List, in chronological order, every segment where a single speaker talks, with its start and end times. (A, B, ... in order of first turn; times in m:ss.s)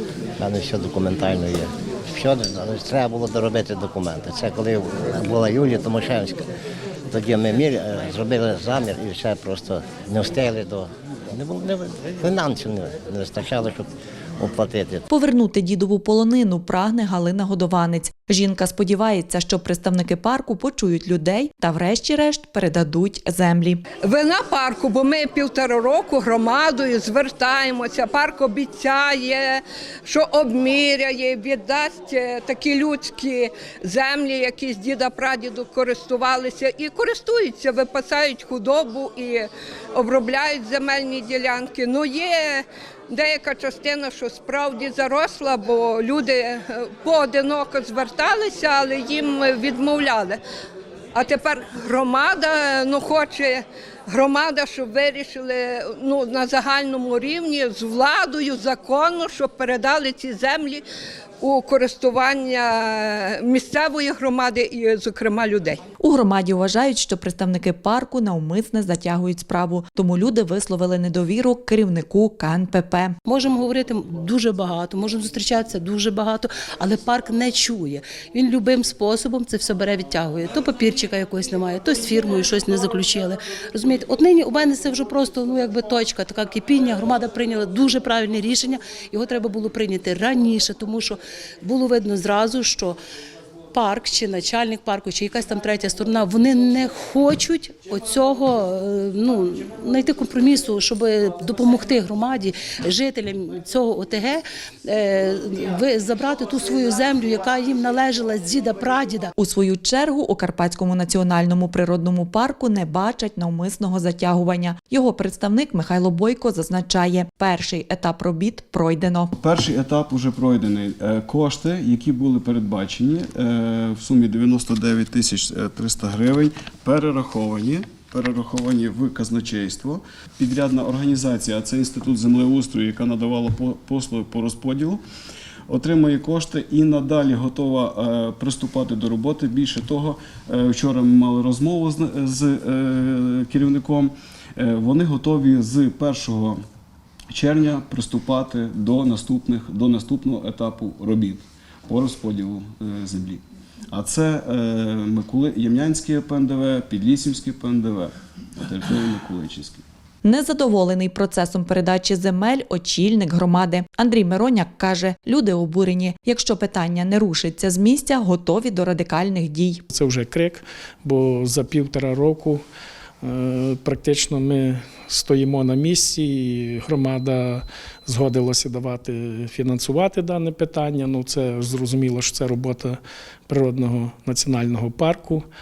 0:00.4-0:06.4 A
0:07.1-0:15.0 A
0:15.1-0:23.8 B
0:24.0-0:50.4 C
0:51.1-1:00.8 C
1:01.4-1:05.8 C
1:06.0-1:13.1 B
1:13.2-1:33.0 D
1:33.7-1:49.3 D
1:49.4-1:59.3 B
1:59.4-2:15.0 E
2:15.7-2:26.6 E
2:27.3-2:39.8 E
2:40.2-2:49.8 B
2:49.9-2:52.6 F
2:53.2-3:05.4 F